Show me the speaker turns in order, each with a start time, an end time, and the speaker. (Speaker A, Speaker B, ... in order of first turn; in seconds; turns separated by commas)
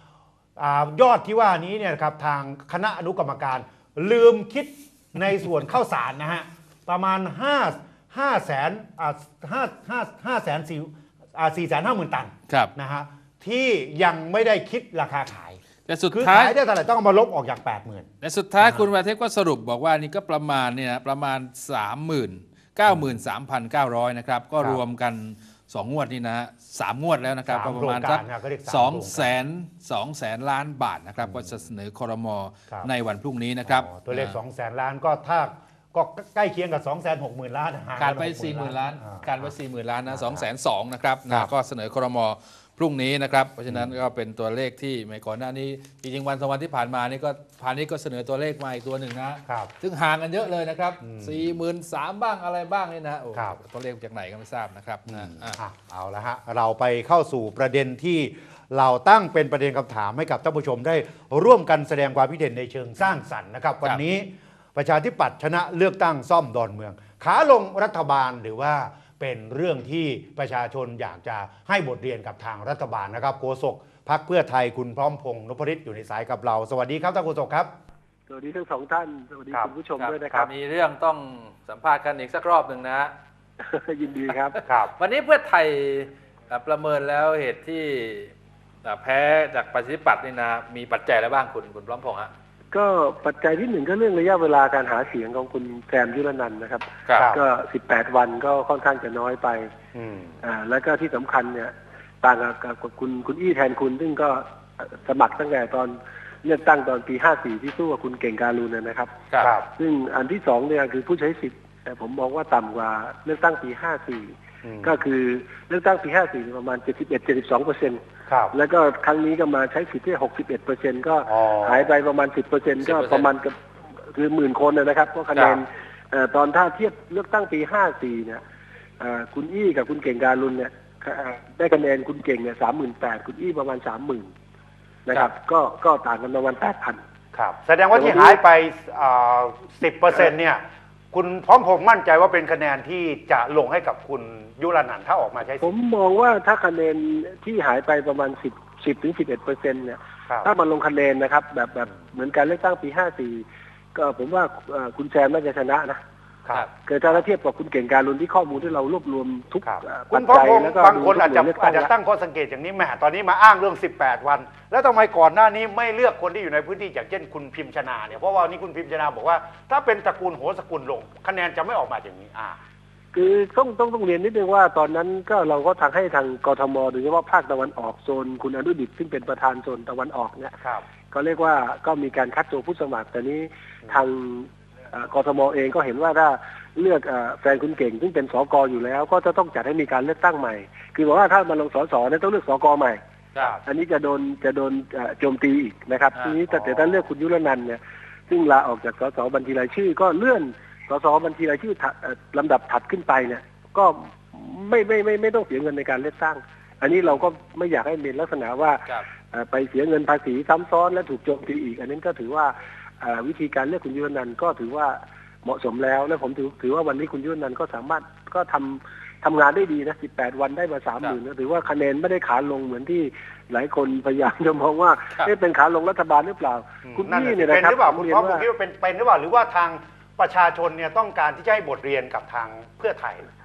Speaker A: 0.6-18.1, Speaker B: 15.9-16.6, Speaker B: 18.2-34.4, Speaker A: 18.6-18.9, Speaker A: 27.5-29.4, Speaker A: 31.2-31.6, Speaker A: 33.6-39.5, Speaker B: 38.0-55.6, Speaker A: 40.1-40.5, Speaker A: 43.7-43.9, Speaker A: 51.0-51.5, Speaker A: 55.1-77.7, Speaker C: 78.3-80.5, Speaker B: 80.0-83.1, Speaker C: 83.6-84.6, Speaker B: 84.3-88.3, Speaker B: 88.8-92.3, Speaker C: 92.7-99.7, Speaker A: 99.9-100.4, Speaker C: 100.4-114.3, Speaker A: 109.4-109.7, Speaker A: 114.6-114.9, Speaker C: 114.8-118.0, Speaker A: 118.3-118.5, Speaker C: 118.5-128.4, Speaker A: 121.3-121.9, Speaker B: 122.8-123.3, Speaker B: 125.3-125.6, Speaker C: 129.0-134.3, Speaker C: 135.1-137.0, Speaker A: 137.3-145.7, Speaker C: 137.9-138.4, Speaker C: 145.6-156.0, Speaker C: 156.8-161.9, Speaker A: 159.6-172.6, Speaker C: 173.1-180.6, Speaker C: 181.1-193.0, Speaker C: 193.6-228.4, Speaker A: 196.5-197.0, Speaker A: 226.8-233.3